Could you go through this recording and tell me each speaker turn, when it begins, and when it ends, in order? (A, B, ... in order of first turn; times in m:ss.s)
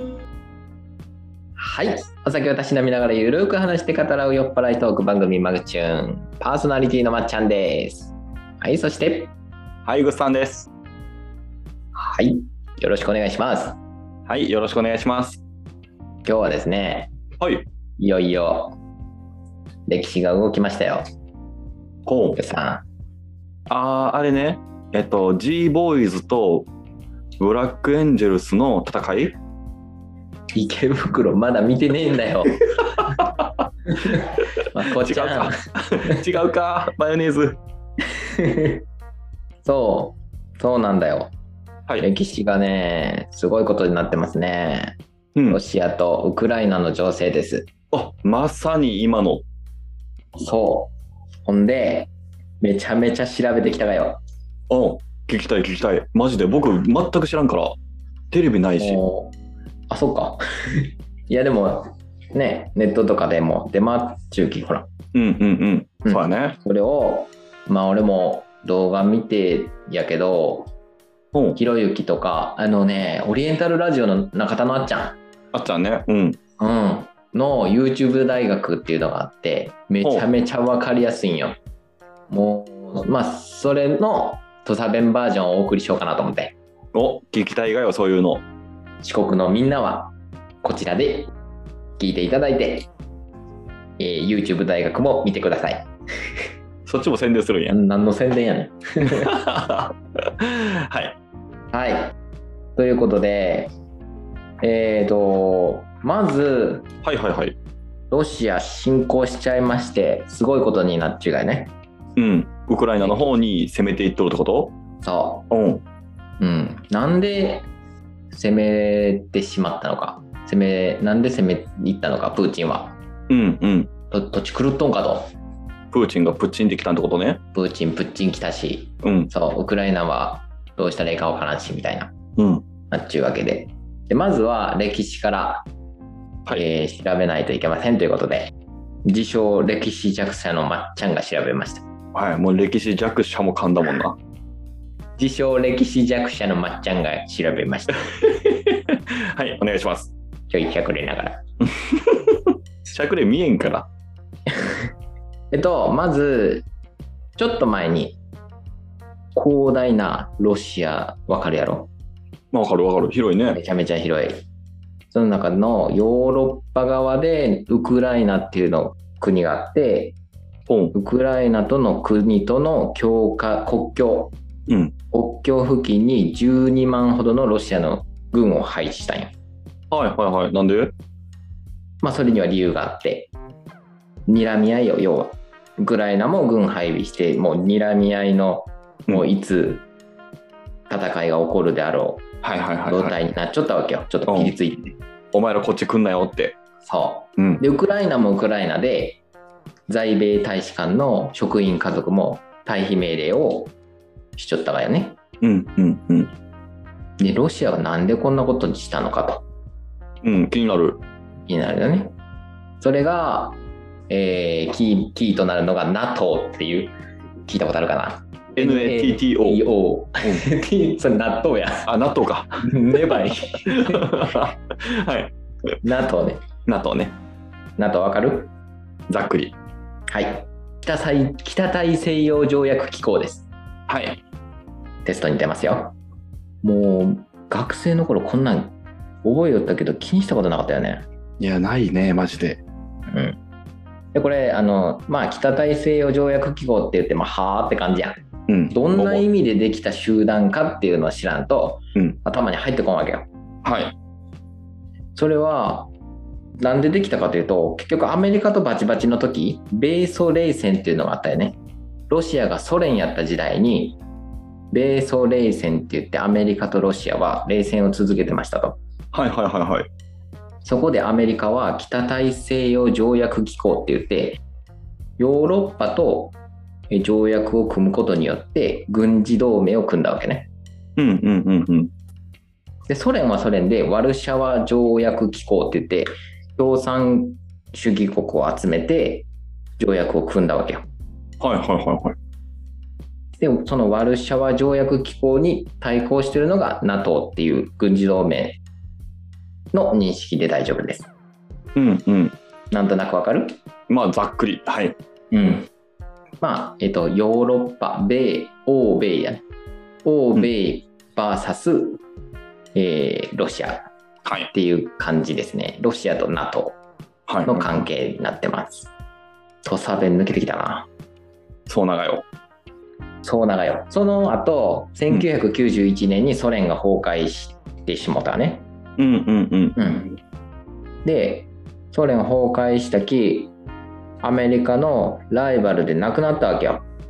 0:01.6-0:09.3 A
0:09.8-0:10.7 B
0:12.0-0:13.8 A
0:14.3-0:15.4 B
0:16.2-0:17.1 A
0:17.4-0:17.6 B
0:18.0-0:18.8 A
0:19.9-0:21.0 A
0:22.1-0:22.4 B
0:22.4-0:22.8 A
0:23.7-0:26.7 B
0:27.4-0:29.4 B
0:30.6-0:32.7 A
0:33.0-0:33.5 B
0:33.9-0:36.2 A
0:34.9-0:37.6 B
0:38.2-0:38.8 A
0:39.6-0:41.3 A
0:42.0-0:45.0 A
0:45.4-0:45.6 B
0:45.5-0:47.7 A
0:47.9-0:49.4 B
0:50.4-0:50.9 A
0:51.5-0:52.1 A
0:52.6-0:54.2 A
0:54.7-0:57.8 B
0:58.3-0:59.0 B
0:58.8-0:59.3 A
0:59.9-1:04.9 A
1:05.1-1:06.6 B
1:06.0-1:10.7 A
1:11.6-1:15.2 A
1:15.5-1:16.4 B
1:16.6-1:21.6 A
1:22.3-1:26.6 A
1:26.9-1:28.4 B
1:29.0-1:30.1 A
1:30.6-1:31.3 A
1:32.0-1:32.9 A
1:34.0-1:35.9 A
1:36.9-1:37.8 B
1:37.7-1:39.3 A
1:39.0-1:41.2 B
1:41.7-1:42.1 A
1:42.8-1:43.7 A
1:44.6-1:46.9 A
1:47.0-1:47.6 B
1:48.1-1:51.7 A
1:52.2-1:54.8 B
1:53.0-1:53.3 A
1:55.0-1:55.4 A
1:55.5-1:55.8 B
1:56.4-1:57.7 A
1:58.3-2:03.0 A
2:03.3-2:03.9 B
2:04.1-2:05.3 A
2:05.9-2:07.4 B
2:07.6-2:12.1 A
2:09.0-2:09.3 B
2:12.4-2:12.6 B
2:12.9-2:15.7 A
2:16.5-2:18.5 A
2:19.0-2:21.8 A
2:22.1-2:24.2 B
2:25.2-2:28.1 A
2:28.2-2:30.1 B
2:30.5-2:31.4 A
2:31.7-2:33.9 B
2:34.5-2:34.9 A
2:35.5-2:36.7 A
2:37.4-2:38.2 A
2:39.4-2:41.9 A
2:42.5-2:43.6 B
2:43.5-2:44.4 A
2:45.1-2:50.2 A
2:50.7-2:50.9 B
2:50.9-2:54.3 A
2:54.7-2:54.9 B
2:55.1-2:59.3 A
2:59.9-3:00.9 B
3:02.0-3:03.3 A
3:04.3-3:09.8 A
3:10.9-3:12.3 A
3:12.4-3:13.2 B
3:12.9-3:15.0 A
3:14.3-3:14.5 B
3:15.3-3:16.6 B
3:16.8-3:19.2 A
3:17.4-3:17.6 B
3:19.9-3:23.7 A
3:24.4-3:25.2 A
3:25.4-3:26.3 B
3:27.2-3:29.4 A
3:30.2-3:31.0 B
3:31.5-3:32.1 A
3:32.8-3:33.6 A
3:34.1-3:36.9 A
3:37.5-3:42.0 A
3:38.6-3:39.6 B
3:41.9-3:45.3 B
3:42.6-3:44.4 A
3:45.8-3:46.4 A
3:46.7-3:47.2 B
3:47.8-3:48.5 A
3:49.1-3:49.6 B
3:50.1-3:53.5 A
3:53.9-3:54.2 B
3:55.0-3:56.0 A
3:56.6-3:58.7 A
3:59.2-4:01.1 A
4:01.4-4:02.6 B
4:03.1-4:03.4 A
4:04.1-4:08.2 A
4:08.5-4:09.2 B
4:08.7-4:13.3 A
4:13.6-4:13.9 B
4:15.2-4:15.9 A
4:16.6-4:21.6 A
4:22.1-4:24.0 A
4:24.7-4:28.8 A
4:29.1-4:29.9 B
4:30.6-4:34.4 A
4:35.2-4:36.3 A
4:36.9-4:40.5 A
4:41.0-4:41.9 B
4:42.9-4:49.3 A
4:49.8-4:50.8 A
4:51.4-4:52.2 B
4:53.4-4:58.6 A
4:59.7-5:01.1 A
5:01.8-5:02.3 B
5:02.7-5:03.5 A
5:03.9-5:05.0 B
5:05.3-5:05.7 A
5:06.4-5:09.4 A
5:10.0-5:12.0 A
5:12.8-5:13.9 A
5:14.2-5:14.5 B
5:14.5-5:16.8 A
5:17.3-5:17.7 B
5:17.5-5:18.9 A
5:19.6-5:20.9 A
5:21.7-5:22.2 B
5:23.2-5:28.6 A
5:29.0-5:29.8 B
5:29.8-5:30.2 A
5:31.0-5:33.5 A
5:34.2-5:36.8 A